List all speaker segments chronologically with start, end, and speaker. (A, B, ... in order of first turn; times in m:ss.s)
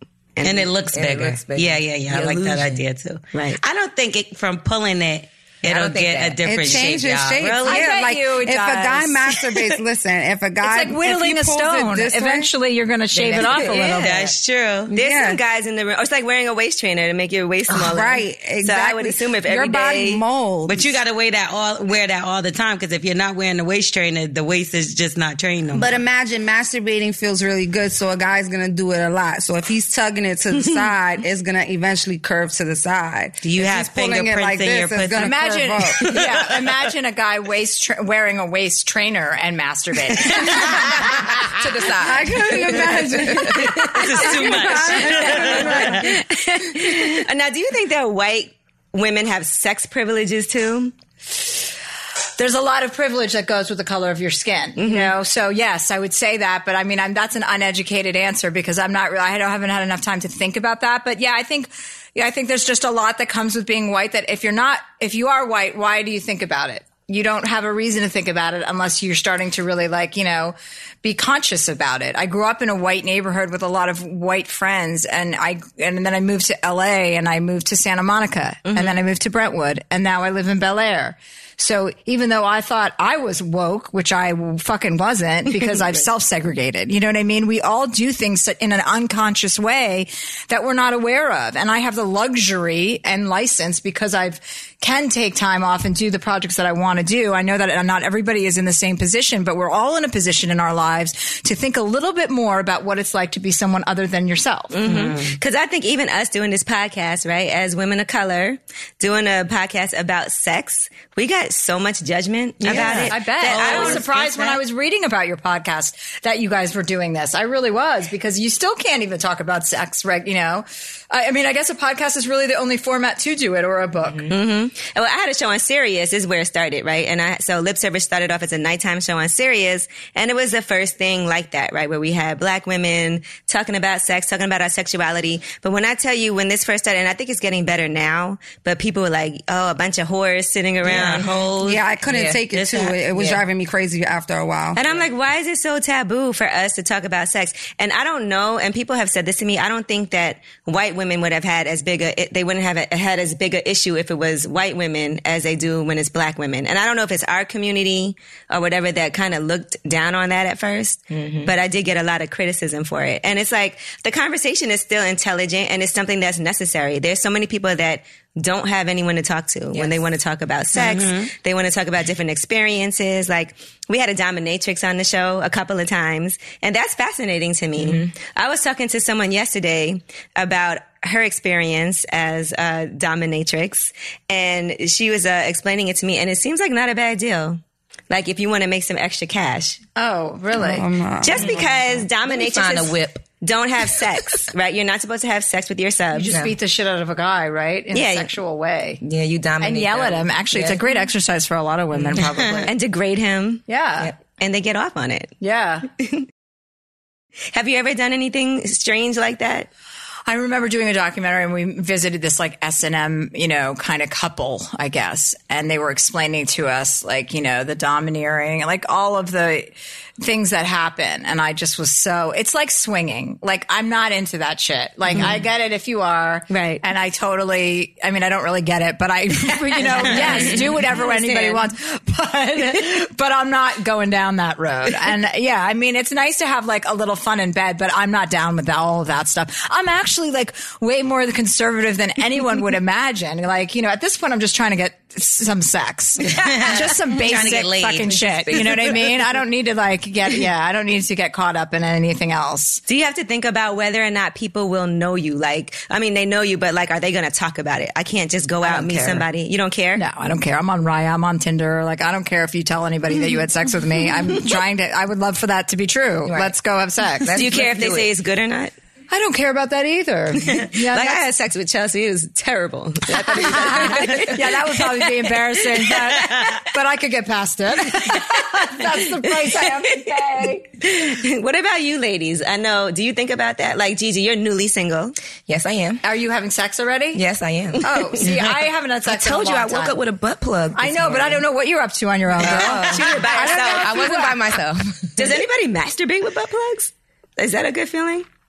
0:00.4-0:00.7 A
0:00.4-0:07.9 B
0:00.9-0:02.8 C
0:03.3-0:03.6 A
0:05.6-0:07.1 C
0:06.4-0:12.5 D
0:07.6-0:09.7 E
0:10.6-0:14.3 E
0:13.1-0:13.9 C
0:13.5-0:14.1 A
0:14.0-0:14.9 B
0:14.9-0:15.4 D
0:14.9-0:20.2 A
0:17.7-0:20.9 D
0:20.7-0:26.0 B
0:25.7-0:36.3 D
0:33.4-0:35.4 B
0:35.2-0:41.5 E
0:36.0-0:36.8 B
0:41.6-0:44.1 C
0:41.9-0:46.2 D
0:43.7-0:46.1 B
0:43.9-0:46.2 E
0:45.8-0:50.9 A
0:52.4-1:44.8 E
0:54.8-0:55.1 A
1:18.7-1:19.0 A
1:44.7-1:54.1 A
1:44.8-1:45.4 B
1:52.6-1:54.6 B
1:52.7-2:04.3 E
2:04.0-2:04.4 C
2:04.3-2:21.2 A
2:20.8-2:21.8 B
2:20.9-2:21.3 C
2:21.6-2:24.8 D
2:22.0-2:22.4 C
2:22.5-2:22.9 B
2:23.1-2:23.4 C
2:24.7-3:09.8 A
2:41.1-2:41.5 C
2:49.7-2:50.0 C
2:50.7-2:51.3 B
2:57.8-2:58.1 C
3:10.0-3:10.9 E
3:10.5-3:11.8 D
3:11.2-3:16.3 A
3:12.2-3:13.2 C
3:16.1-3:19.0 E
3:17.9-3:18.3 A
3:19.0-3:20.8 C
3:19.6-3:22.7 E
3:21.9-3:22.3 C
3:22.6-3:23.6 A
3:23.7-3:24.1 E
3:24.4-3:25.4 A
3:25.4-3:25.9 E
3:26.0-3:26.2 A
3:27.5-3:29.7 A
3:30.3-4:12.8 E
3:45.1-3:45.4 A
3:46.5-3:46.8 A
3:49.8-3:51.6 A
4:06.3-4:08.8 B
4:08.5-4:08.8 C
4:12.8-4:20.0 A
4:18.6-4:19.2 C
4:18.7-4:19.2 E
4:20.0-4:27.4 E
4:26.2-4:26.5 C
4:27.1-4:28.1 C
4:27.3-4:28.7 A
4:29.1-4:31.2 E
4:30.4-4:36.3 A
4:33.1-4:40.6 E
4:33.6-4:34.2 C
4:39.3-4:45.1 A
4:45.5-4:46.0 C
4:46.0-4:47.2 E
4:47.1-4:51.4 C
4:47.8-4:50.0 E
4:50.7-4:54.5 E
4:52.4-4:55.4 C
4:52.4-4:54.0 A
4:55.2-4:58.2 A